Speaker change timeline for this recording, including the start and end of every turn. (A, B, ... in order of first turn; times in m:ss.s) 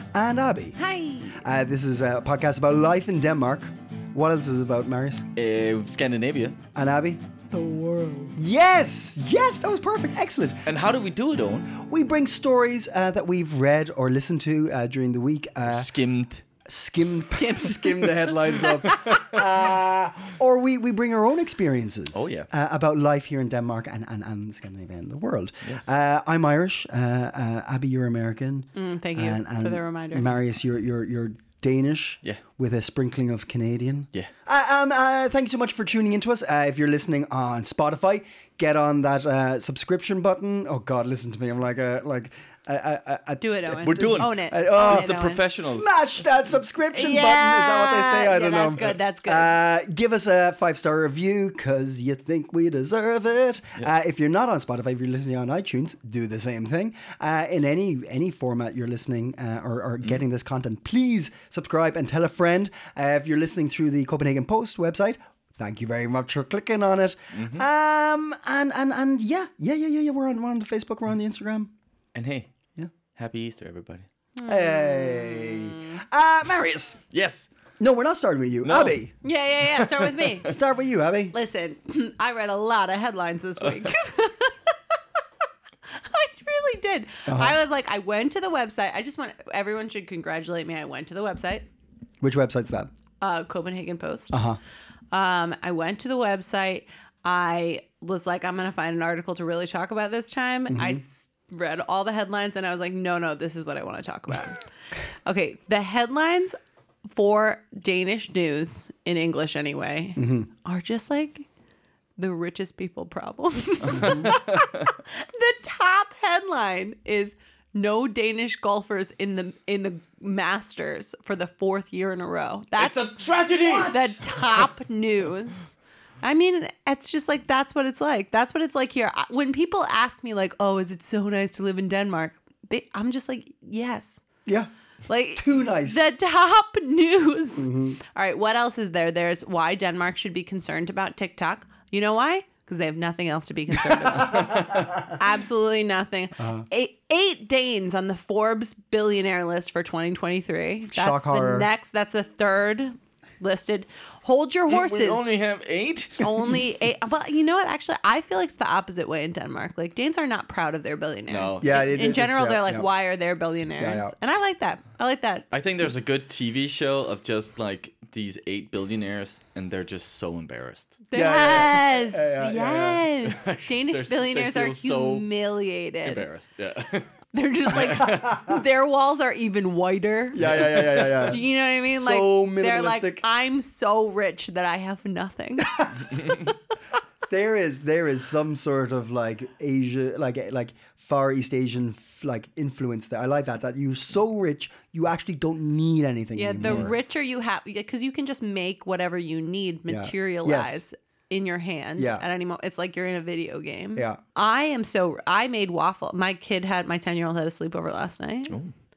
0:00.1-0:00.8 A
0:00.8-0:01.4 B
0:01.3-0:05.3 A
0:05.4-0:06.6 C
0:06.7-0:07.2 A
0:07.5-0:08.4 B
0:08.4-0:10.7 A
0:10.7-0:11.7 C
0:11.7-0:15.9 A
0:15.6-0:16.4 C
0:16.6-1:11.7 A
0:17.3-0:19.2 B
0:18.9-0:19.2 C
0:22.1-0:22.5 C
0:28.8-0:30.4 B
0:43.4-0:45.4 B
0:43.8-0:45.9 C
0:46.9-0:49.6 B
1:07.3-1:07.7 C
1:12.1-1:12.5 C
1:13.2-1:14.1 C
1:14.4-1:16.0 B
1:14.4-1:17.0 A
1:17.1-1:17.5 C
1:17.8-1:19.1 A
1:18.6-1:19.0 C
1:19.2-1:20.5 B
1:19.8-1:20.5 C
1:20.4-1:21.4 A
1:21.3-1:24.8 B
1:23.6-1:23.9 C
1:25.9-1:31.7 B
1:27.3-1:27.6 A
1:32.2-1:32.9 A
1:33.2-1:34.4 B
1:34.3-1:34.6 A
1:35.1-1:51.5 B
1:40.7-1:41.0 A
1:50.2-1:50.5 A
1:52.2-2:03.2 B
1:54.0-1:54.3 A
2:02.8-2:04.2 C
2:03.8-2:14.2 B
2:15.1-2:35.3 B
2:15.4-2:16.0 A
2:17.6-2:18.0 A
2:23.8-2:25.1 A
2:26.4-2:26.6 A
2:30.9-2:31.7 A
2:34.7-2:36.6 C
2:36.2-2:45.5 B
2:41.3-2:41.9 C
2:41.6-2:42.9 A
2:43.8-2:44.2 A
2:45.5-2:51.0 C
2:51.1-2:56.3 B
2:51.2-2:53.1 A
2:53.2-2:55.3 C
2:56.0-2:58.3 C
2:57.3-3:06.6 B
2:58.1-2:58.6 A
3:00.3-3:03.2 A
3:00.4-3:01.4 C
3:05.7-3:06.1 A
3:07.3-3:16.9 A
3:16.4-3:28.6 B
3:19.9-3:20.8 A
3:22.0-3:22.2 A